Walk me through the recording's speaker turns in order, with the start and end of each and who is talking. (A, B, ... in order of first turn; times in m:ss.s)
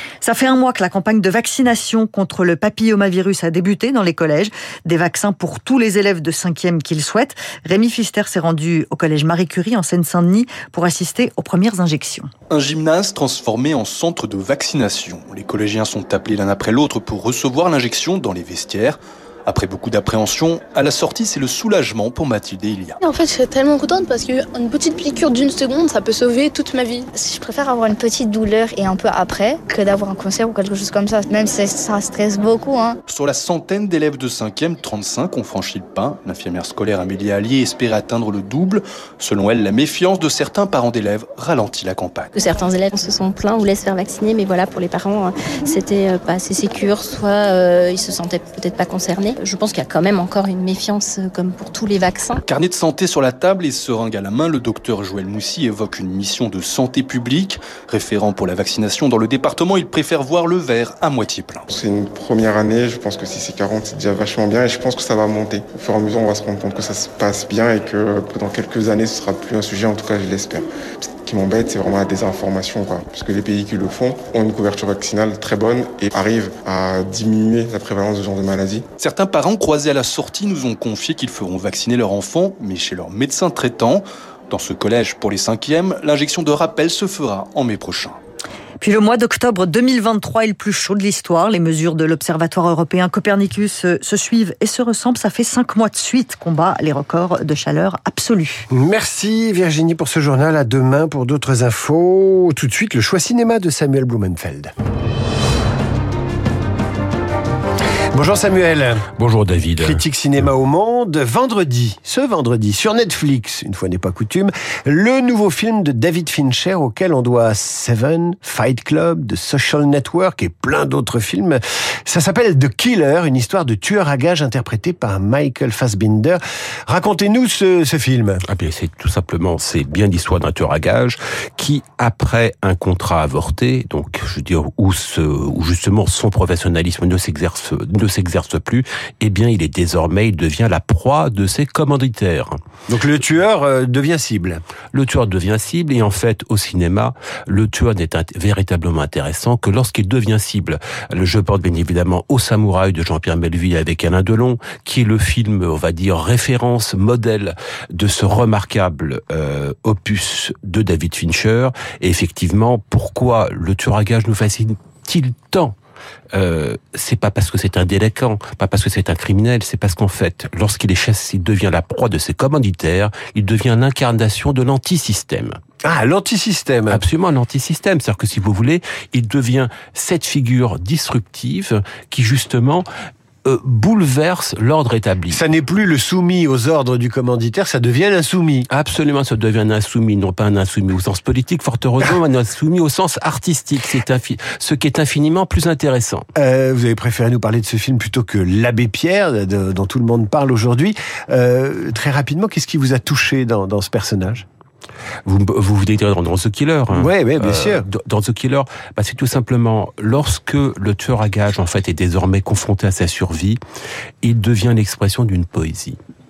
0:00.2-0:12.3 A
0:12.5-0:23.0 B
0:23.0-0:27.1 C
0:27.1-0:33.0 D
0:33.1-0:42.4 B
0:42.4-0:52.4 E
0:52.4-1:01.7 B
1:01.7-1:18.8 F
1:19.0-1:28.2 B
1:28.8-1:38.6 A
1:38.7-1:44.7 G
1:48.1-1:49.1 G
1:49.2-1:50.0 H
1:49.8-2:08.4 G
2:08.5-2:22.6 H
2:22.9-2:24.6 G
2:24.9-2:45.7 H
2:46.3-2:55.6 H
2:55.8-2:57.0 G
2:56.9-3:02.8 H
3:03.4-3:05.4 H
3:05.3-3:08.7 G
3:08.7-3:16.2 H
3:16.4-3:24.4 G
3:25.2-3:33.6 H
3:26.9-3:27.9 G
3:34.2-3:36.0 H